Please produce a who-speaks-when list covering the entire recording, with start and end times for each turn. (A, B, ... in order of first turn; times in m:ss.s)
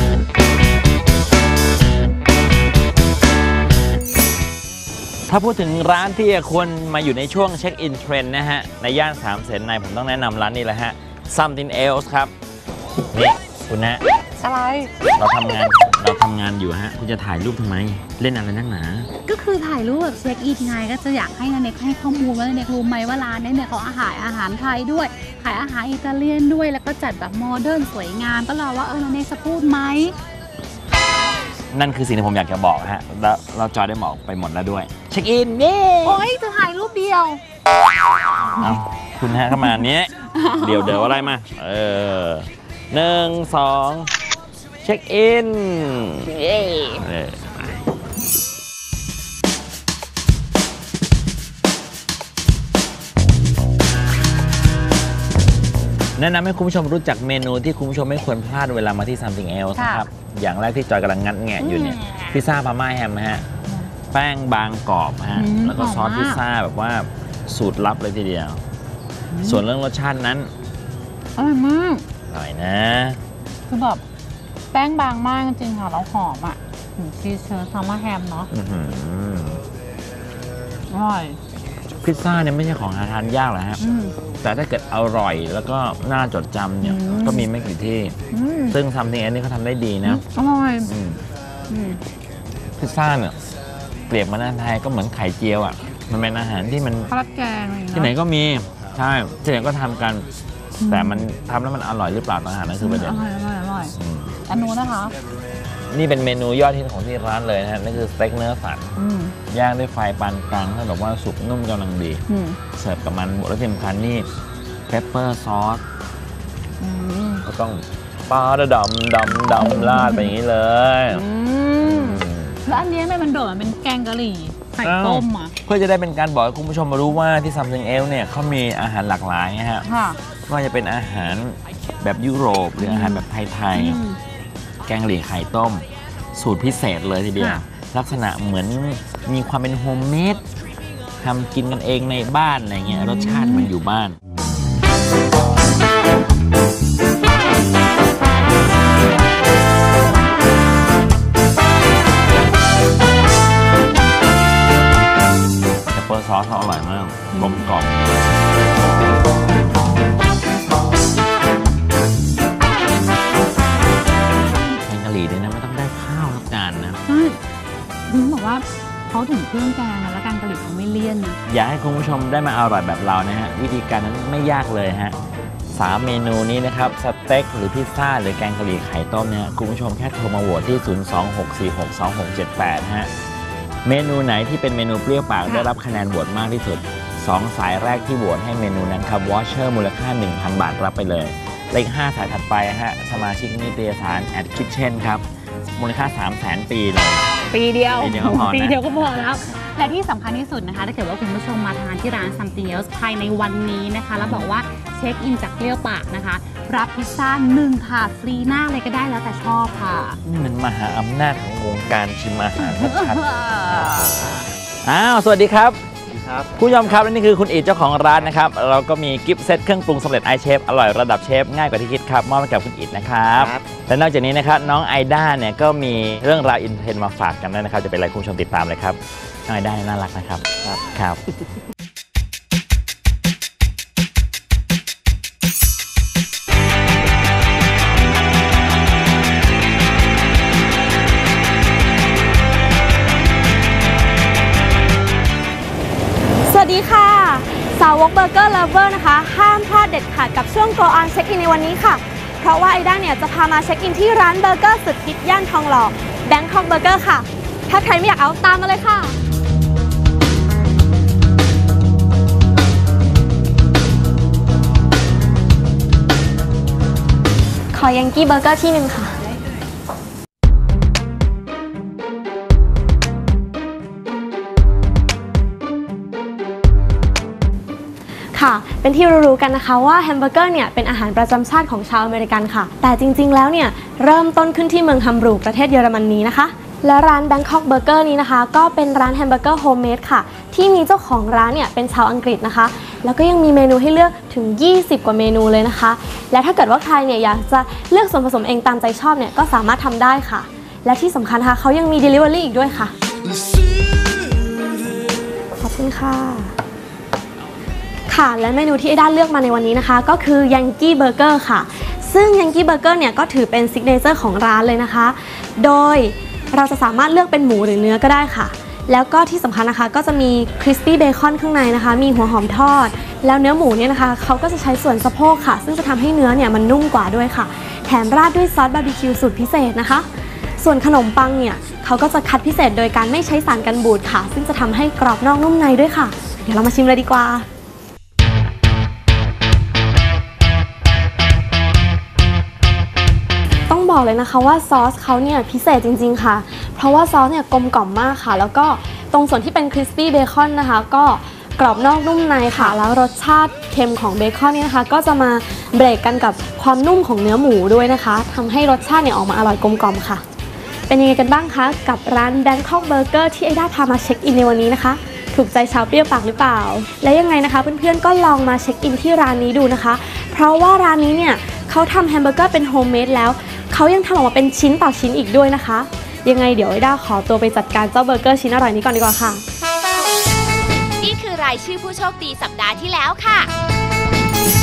0:05.3-0:12.3 A
0:13.1-0:14.0 A
0:14.4-0:14.9 B
0:15.2-0:19.1 A
0:19.2-0:30.2 B
0:31.7-0:36.2 A
0:36.0-0:37.4 B
0:38.6-0:44.1 A
0:44.8-0:47.8 A
0:56.2-1:03.4 A
1:01.6-1:02.4 B
1:04.1-1:08.6 A
1:05.4-1:06.4 B
1:09.4-1:10.5 A
1:11.4-1:12.0 B
1:12.3-1:13.2 A
1:13.7-1:14.0 B
1:14.7-1:18.5 B
1:18.5-1:19.6 A
1:20.9-1:21.4 B
1:22.0-1:23.8 A
1:23.8-1:24.1 B
1:24.4-1:28.2 A
1:26.9-1:27.3 B
1:28.3-1:28.8 B
1:28.7-1:30.2 A
1:30.1-1:30.9 B
1:30.8-1:31.2 A
1:31.7-1:32.0 B
1:32.8-1:33.4 A
1:34.1-1:37.1 A
1:37.1-1:38.0 B
1:37.9-1:40.3 A
1:40.8-1:41.2 B
1:40.9-1:43.2 A
1:42.8-1:44.0 B
1:43.9-1:44.4 A
1:44.5-1:45.1 B
1:45.9-1:49.0 A
1:49.0-1:49.4 B
1:49.5-1:52.2 A
1:52.3-1:52.6 B
1:52.7-1:54.3 A
1:54.9-1:55.8 A
1:56.8-1:57.5 B
1:57.4-2:01.2 A
2:01.2-2:02.2 B
2:01.8-2:02.6 A
2:02.7-2:05.5 B
2:04.8-2:09.9 A
2:09.8-2:10.2 B
2:10.5-2:14.0 A
2:12.8-2:13.2 B
2:13.7-2:14.2 B
2:14.9-2:20.4 A
2:21.2-2:24.2 A
2:35.9-2:38.0 A
2:44.8-2:47.0 A
2:47.1-2:47.4 B
2:48.1-2:51.4 B
2:51.5-2:55.2 A
2:55.7-3:03.1 A
3:03.8-3:17.3 A
3:17.5-3:30.2 B
3:17.9-3:19.3 A
3:24.2-3:24.5 A
3:30.2-3:35.8 A
3:32.7-3:34.4 B
3:36.4-3:51.2 A
4:06.4-4:19.2 C
4:27.7-4:29.2 C
4:38.3-5:02.9 C
5:05.6-5:06.5 C
5:08.1-5:30.1 C
5:30.6-5:37.4 C
5:43.7-6:00.2 C
6:00.9-6:19.4 C
6:21.0-6:23.5 D